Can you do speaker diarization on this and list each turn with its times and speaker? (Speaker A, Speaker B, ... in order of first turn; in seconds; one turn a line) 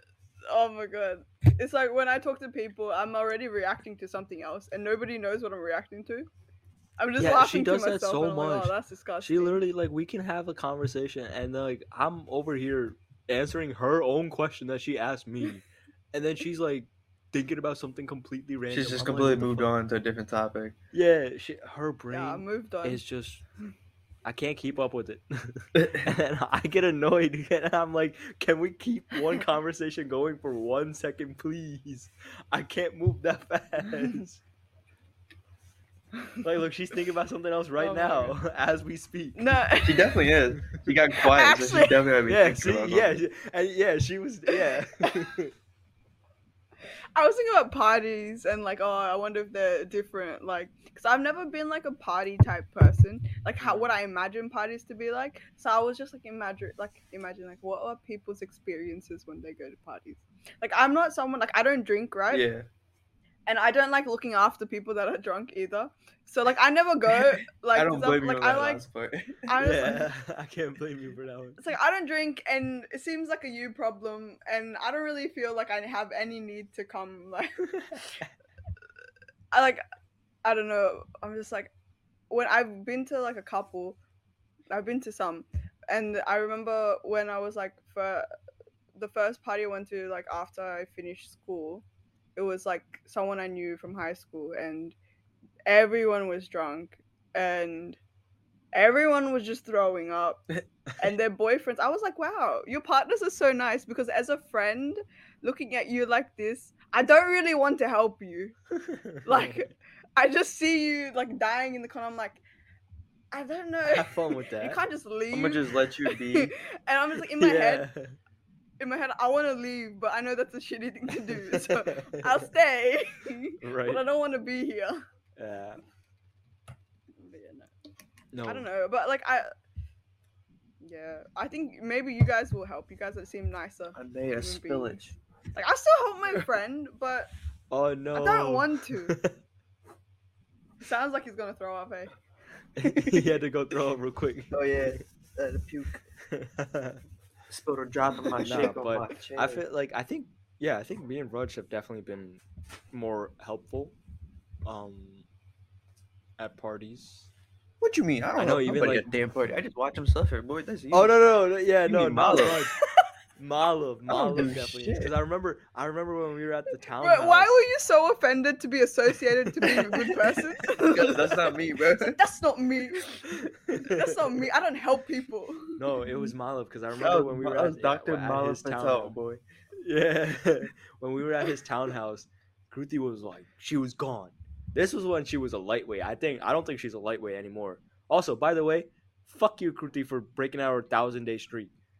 Speaker A: 0.5-6.3
Speaker A: 7.0-9.6
Speaker B: 7.2-19.7
Speaker C: 18.7-20.7
Speaker B: 20.9-23.4
Speaker A: 22.1-23.0
Speaker B: 24.2-34.4
Speaker A: 36.1-36.4
Speaker B: 36.4-39.4
Speaker A: 37.8-38.4
Speaker A: 39.4-40.1
Speaker C: 39.8-43.2
Speaker A: 41.2-42.0
Speaker B: 42.3-45.5
Speaker A: 44.5-44.8
Speaker A: 47.1-62.5
Speaker C: 62.3-62.6
Speaker A: 63.5-68.8
Speaker C: 67.7-69.4
Speaker A: 69.5-70.1
Speaker B: 69.6-71.6
Speaker A: 71.6-78.2
Speaker B: 77.9-78.2
Speaker A: 79.5-79.8
Speaker A: 80.4-81.7
Speaker A: 82.3-84.0
Speaker A: 84.7-88.2
Speaker A: 88.9-95.0
Speaker A: 95.7-98.0
Speaker A: 98.7-108.5
Speaker B: 109.2-109.6
Speaker A: 109.2-112.4
Speaker A: 113.3-117.9
Speaker B: 113.8-114.8
Speaker C: 115.3-116.5
Speaker B: 117.3-118.2
Speaker A: 118.8-125.0
Speaker B: 121.3-122.5
Speaker B: 123.6-124.0
Speaker B: 125.4-125.8
Speaker A: 127.2-127.7
Speaker B: 128.3-128.7
Speaker A: 128.4-129.5
Speaker A: 130.8-135.0
Speaker C: 133.9-135.1
Speaker A: 135.5-137.3
Speaker B: 137.7-139.3
Speaker A: 138.1-139.2
Speaker A: 140.8-142.1
Speaker B: 142.8-145.0
Speaker C: 142.8-143.3
Speaker C: 144.5-146.0
Speaker B: 146.3-147.0
Speaker C: 147.5-149.6
Speaker B: 148.4-152.4
Speaker B: 152.9-153.9
Speaker B: 154.6-155.2
Speaker B: 156.4-157.3
Speaker C: 157.8-161.2
Speaker B: 158.4-159.1
Speaker B: 160.9-162.7
Speaker C: 161.8-162.6
Speaker B: 163.4-167.6
Speaker C: 164.1-165.1
Speaker A: 167.0-176.3
Speaker C: 170.8-172.2
Speaker B: 173.4-174.1
Speaker B: 175.8-179.2
Speaker C: 176.9-179.4
Speaker B: 179.8-191.7